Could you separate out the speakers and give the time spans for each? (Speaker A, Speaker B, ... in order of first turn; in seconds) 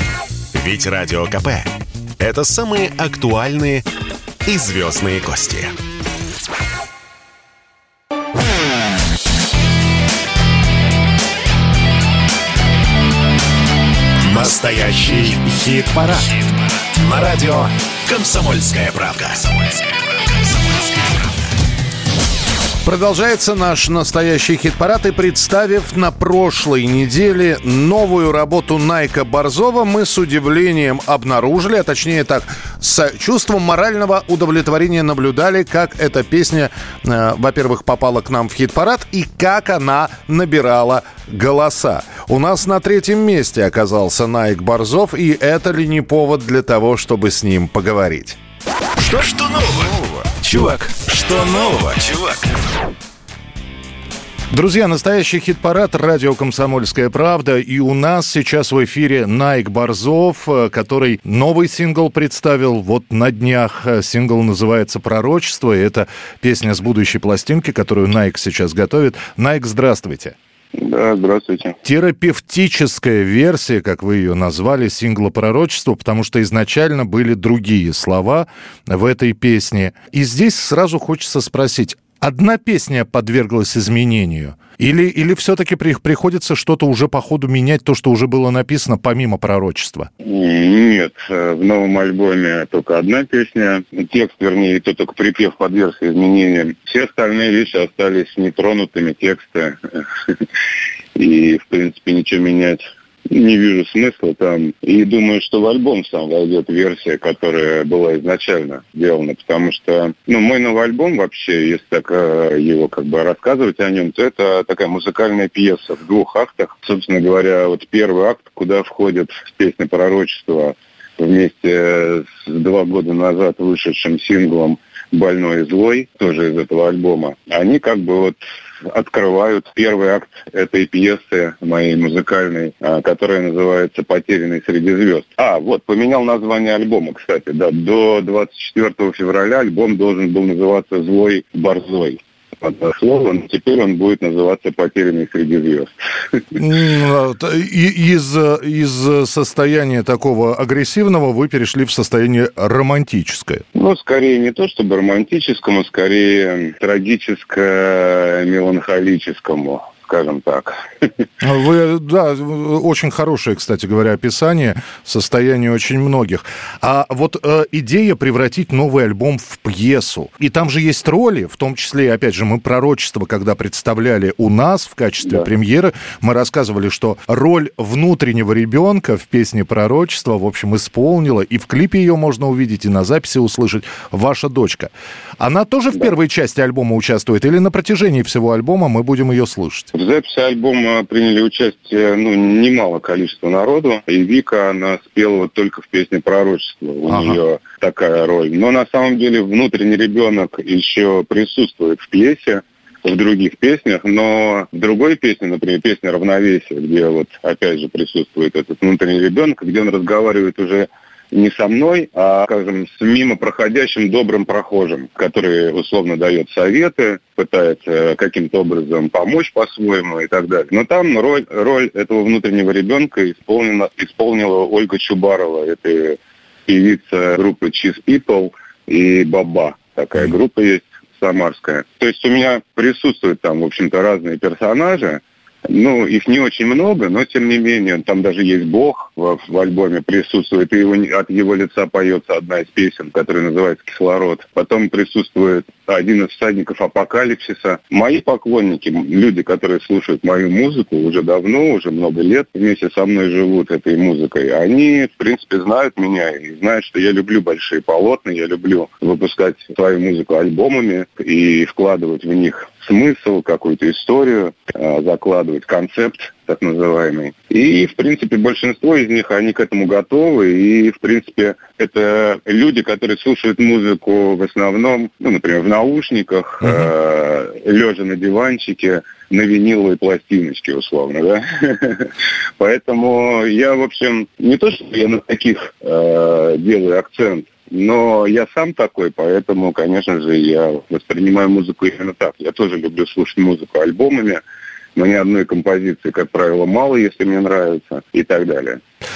Speaker A: 0.5-3.9, 4.4-5.8, 14.2-15.8, 16.9-19.8, 20.4-21.2, 49.0-52.5
Speaker B: 15.8-16.2, 22.8-48.4, 54.5-70.3, 71.8-90.1, 146.6-153.6, 161.4-189.9, 197.1-197.4
Speaker C: 70.8-71.8, 90.2-100.0, 101.1-145.9, 153.7-160.8, 189.9-294.4, 294.9-298.8